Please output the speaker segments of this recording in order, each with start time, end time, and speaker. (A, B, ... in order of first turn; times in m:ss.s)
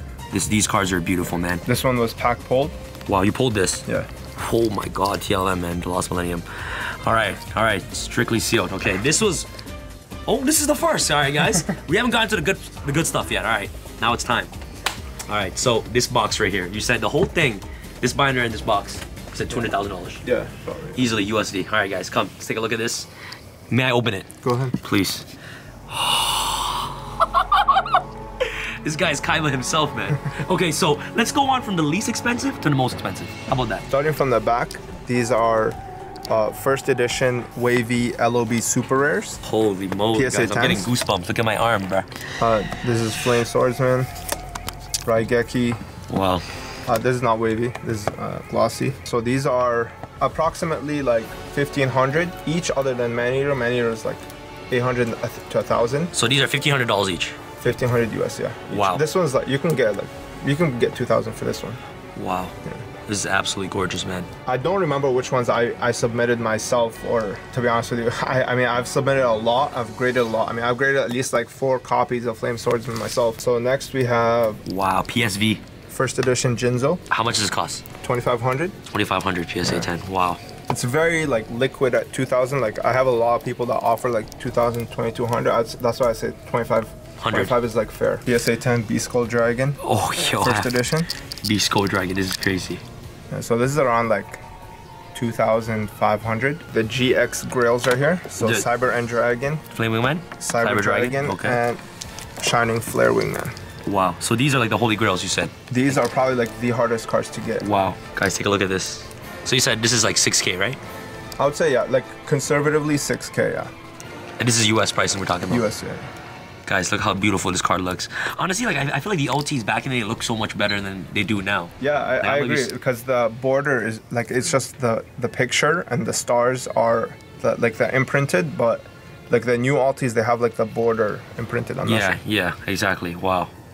0:00.3-0:01.6 A
0:01.7-0:02.7 B
0:03.1-0:03.9 A
0:04.4-0:09.5 A
0:10.3-0:14.5 A
0:15.3-0:20.2 A
0:20.2-0:21.0 B
0:21.0-0:23.1 A
0:23.7-0:25.3 A
0:24.4-0:24.8 B
0:25.9-0:33.9 A
0:33.9-0:39.4 B
0:39.4-0:42.1 A
0:40.1-0:40.9 B
0:42.4-0:44.1 B
0:45.0-0:45.8 B
0:46.1-0:46.4 A
0:46.9-0:56.1 B
0:56.1-0:57.4 A
0:57.6-1:01.8 B
0:58.7-0:59.0 A
1:02.2-1:02.6 A
1:03.1-1:04.3 A
1:04.5-1:14.6 B
1:14.6-1:15.6 A
1:15.9-1:17.0 B
1:17.1-1:17.8 A
1:18.0-1:18.8 B
1:18.9-1:20.4 A
1:20.7-1:31.1 B
1:27.2-1:27.6 A
1:29.8-1:30.8 A
1:31.4-1:32.8 A
1:33.3-1:34.4 B
1:35.1-1:39.6 B
1:38.4-1:38.7 A
1:39.7-1:41.6 A
1:40.4-1:41.8 B
1:42.4-1:43.5 B
1:43.9-1:45.5 A
1:45.7-1:47.7 B
1:47.6-1:50.8 A
1:51.4-1:53.7 B
1:54.4-1:55.7 A
1:55.5-1:56.1 B
1:56.7-2:02.7 A
2:01.8-2:12.2 B
2:11.8-2:13.5 A